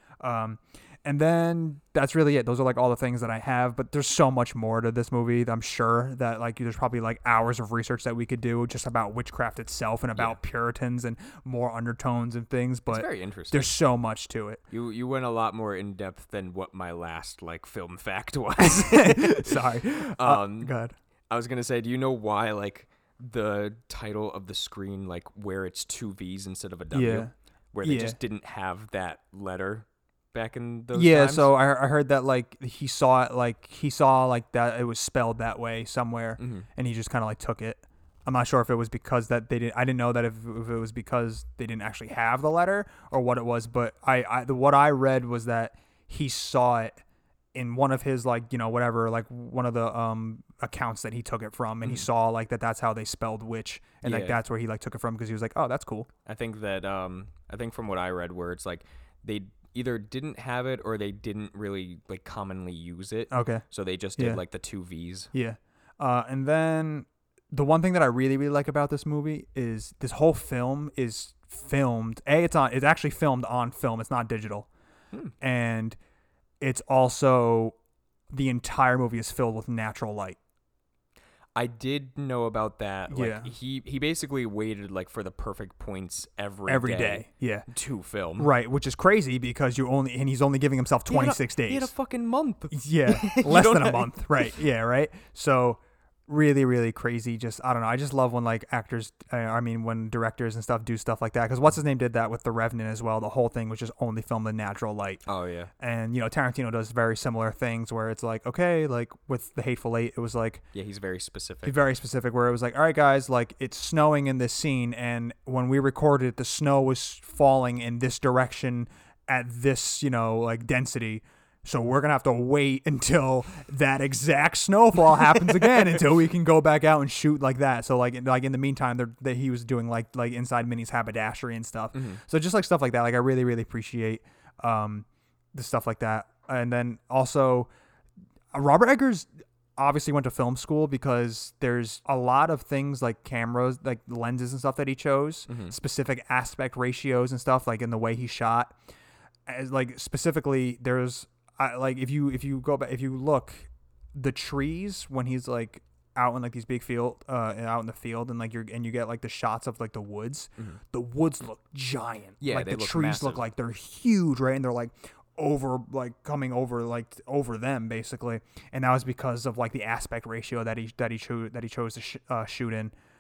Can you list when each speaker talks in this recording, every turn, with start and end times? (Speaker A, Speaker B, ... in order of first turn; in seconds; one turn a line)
Speaker A: 0.2-14.6
Speaker B: 12.9-13.7
Speaker B: 14.7-20.7
Speaker A: 18.6-20.9
Speaker B: 21.3-31.5
Speaker A: 26.9-27.3
Speaker A: 27.8-28.2
Speaker A: 30.9-47.0
Speaker B: 36.4-36.7
Speaker A: 47.5-56.1
Speaker B: 54.0-54.4
Speaker B: 56.3-65.3
Speaker A: 63.3-63.6
Speaker A: 65.3-74.7
Speaker A: 75.4-76.0
Speaker A: 76.6-77.8
Speaker A: 78.3-80.4
Speaker B: 81.6-88.5
Speaker A: 83.1-83.5
Speaker A: 86.7-87.7
Speaker A: 88.4-91.9
Speaker B: 91.1-94.6
Speaker A: 92.7-105.2
Speaker B: 105.3-105.7
Speaker A: 105.8-110.6
Speaker B: 110.7-111.8
Speaker A: 111.7-137.7
Speaker B: 131.9-132.2
Speaker A: 138.5-148.8
Speaker B: 145.5-145.8
Speaker A: 149.5-172.9
Speaker B: 162.4-163.4